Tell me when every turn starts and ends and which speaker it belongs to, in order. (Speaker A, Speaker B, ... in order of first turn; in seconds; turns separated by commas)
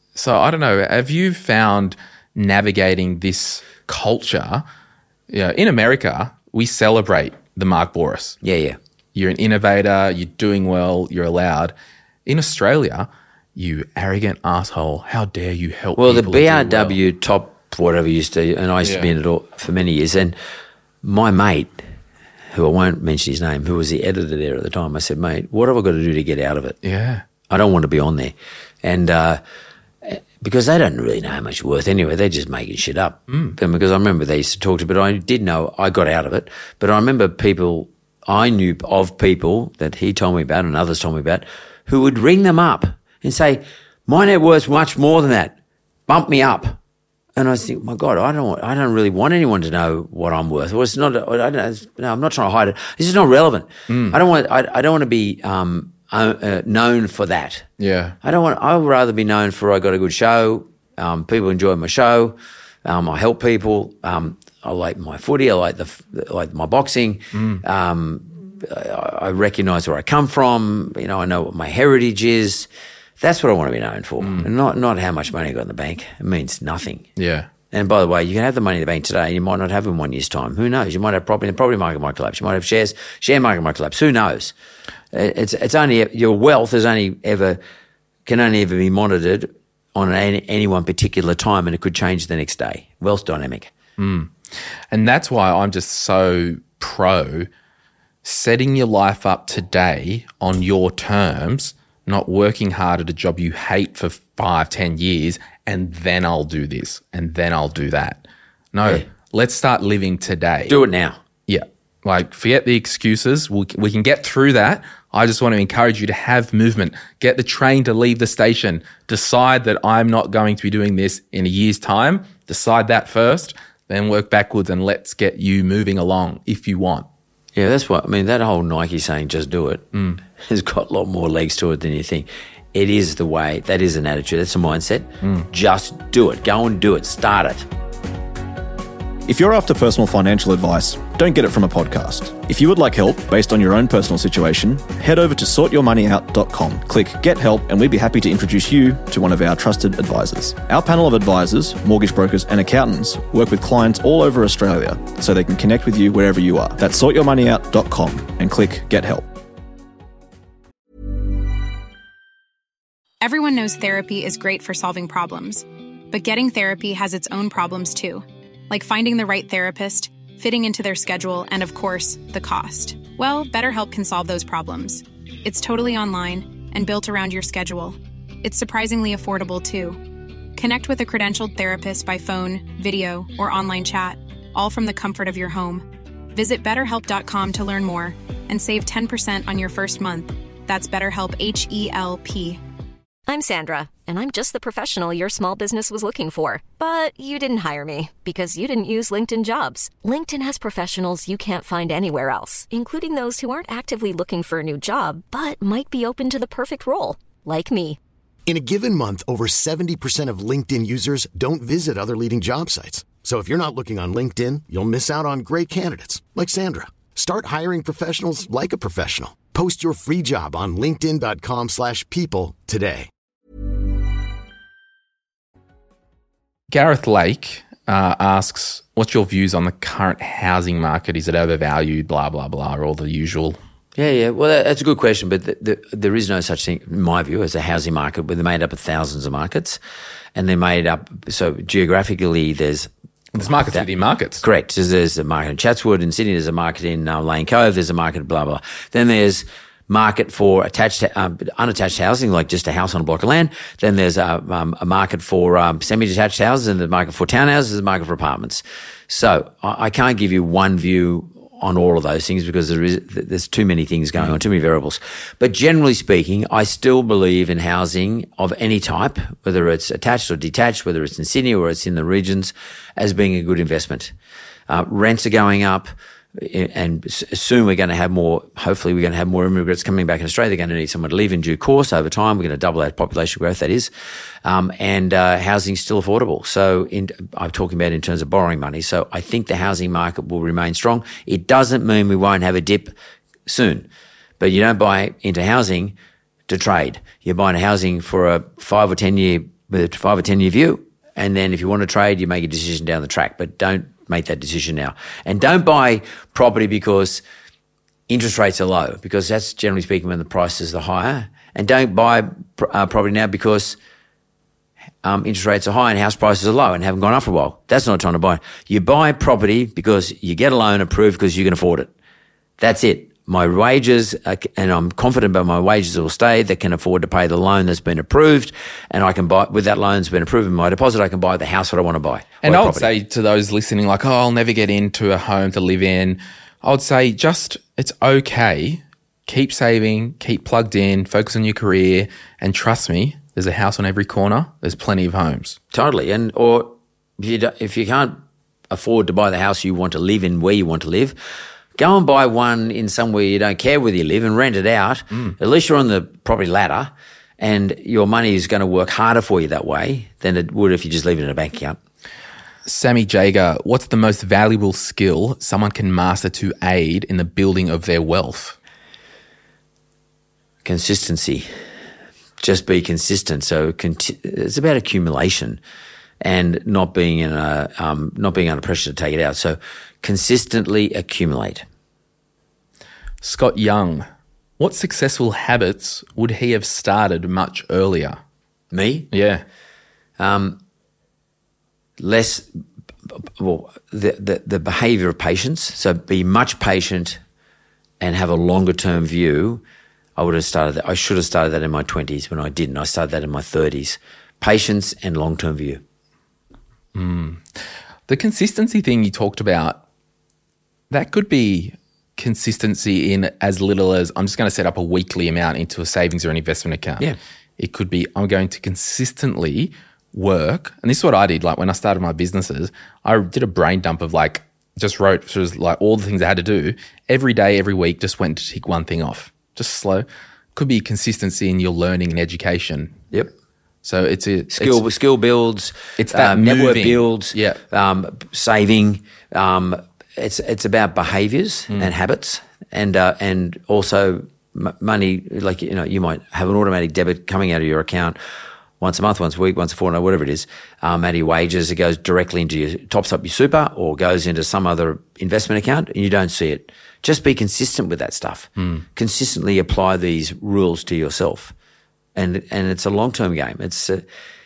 Speaker A: 0.2-4.6, Speaker A: 5.3-8.4, Speaker B: 8.4-8.8, Speaker A: 9.2-11.7, Speaker A: 12.3-17.0, Speaker B: 16.0-20.4, Speaker A: 18.8-19.1, Speaker B: 21.0-21.8, Speaker B: 22.5-26.8, Speaker A: 26.8-27.2, Speaker B: 27.5-29.4, Speaker B: 30.0-45.6, Speaker A: 33.3-33.6, Speaker B: 46.1-46.8, Speaker B: 47.4-57.7, Speaker A: 53.9-54.2, Speaker A: 57.8-58.2, Speaker B: 58.2-72.7, Speaker A: 67.3-67.6, Speaker B: 73.2-77.0, Speaker A: 74.2-74.5, Speaker A: 77.2-77.5, Speaker B: 77.7-84.5, Speaker B: 85.1-87.6, Speaker B: 88.3-93.7, Speaker A: 94.0-94.3, Speaker A: 94.9-97.5, Speaker A: 98.2-108.2, Speaker A: 108.7-110.8, Speaker B: 110.7-111.2, Speaker A: 111.5-127.1, Speaker B: 127.5-137.7, Speaker A: 129.9-130.2, Speaker C: 139.3-159.3, Speaker D: 163.2-180.0, Speaker D: 180.6-192.6, Speaker E: 193.3-208.0, Speaker F: 208.5-223.1, Speaker A: 226.7-233.6, Speaker B: 234.0-239.8, Speaker B: 240.3-242.9, Speaker A: 243.3-244.4, Speaker B: 243.4-243.9, Speaker B: 244.4-274.1, Speaker B: 274.7-283.9, Speaker B: 284.4-292.9, Speaker B: 293.5-293.9, Speaker B: 294.4-295.9, Speaker B: 296.5-307.2, Speaker B: 308.1-313.8, Speaker B: 315.0-321.9, Speaker B: 322.6-332.9, Speaker A: 332.4-345.6, Speaker B: 345.7-348.2, Speaker B: 348.7-351.2, Speaker B: 351.8-361.8, Speaker A: 362.7-368.6, Speaker B: 370.6-371.5, Speaker B: 372.4-375.6, Speaker B: 376.2-381.6, Speaker A: 383.2-384.1, Speaker A: 384.6-388.2, Speaker B: 388.7-389.1, Speaker A: 389.1-389.4, Speaker B: 390.2-390.6, Speaker B: 392.0-392.5, Speaker B: 393.1-397.2, Speaker B: 398.0-399.6, Speaker B: 400.2-405.8, Speaker A: 406.9-407.4, Speaker A: 408.1-409.8, Speaker A: 410.9-417.1, Speaker A: 417.6-433.0, Speaker A: 433.8-434.8, Speaker B: 434.5-448.2, Speaker A: 436.0-437.6, Speaker B: 448.8-461.5, Speaker A: 458.6-458.8, Speaker B: 462.1-464.1